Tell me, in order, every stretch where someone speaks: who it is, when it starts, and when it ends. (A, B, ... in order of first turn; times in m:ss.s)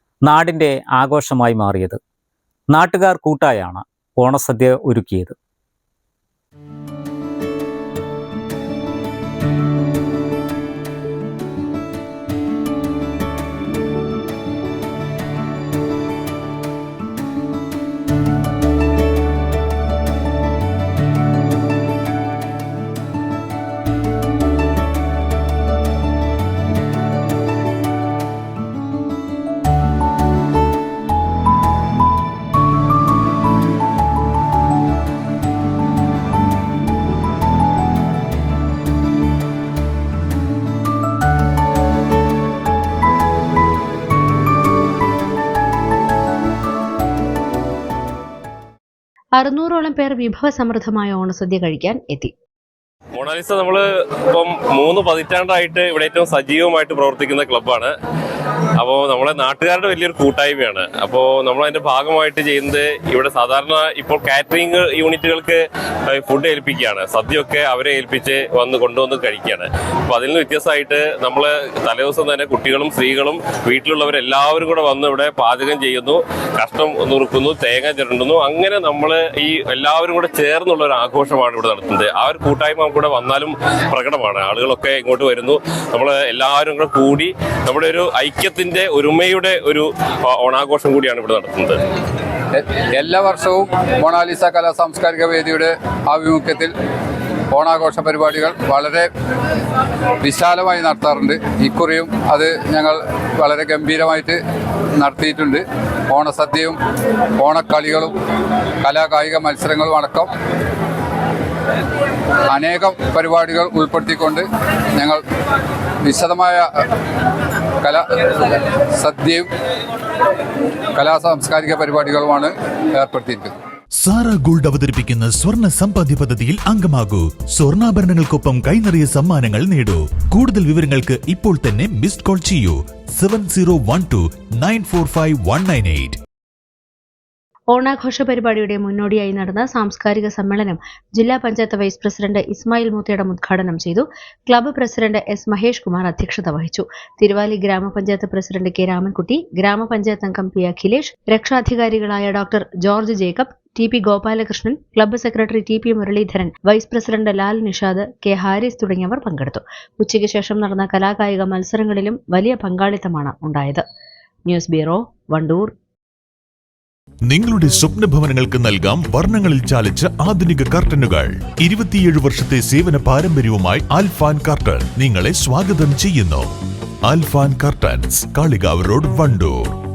0:00.2-0:02.0 A
0:02.7-0:05.4 A
0:49.4-0:52.3 B
0:53.2-0:57.9 C
0:58.8-1:31.8 C
1:32.5-1:36.7 D
1:37.5-1:39.1 D
1:40.2-1:44.4 D
1:45.0-1:46.8 D
1:47.4-1:48.1 D
1:48.8-1:50.3 D
1:52.5-1:55.2 D
1:56.0-1:56.7 D
1:57.8-1:59.5 D
2:00.9-2:03.5 D
2:04.0-2:16.2 E
2:17.7-2:43.8 B
2:44.4-2:45.7 B
2:47.3-2:56.5 E
2:57.0-2:59.7 E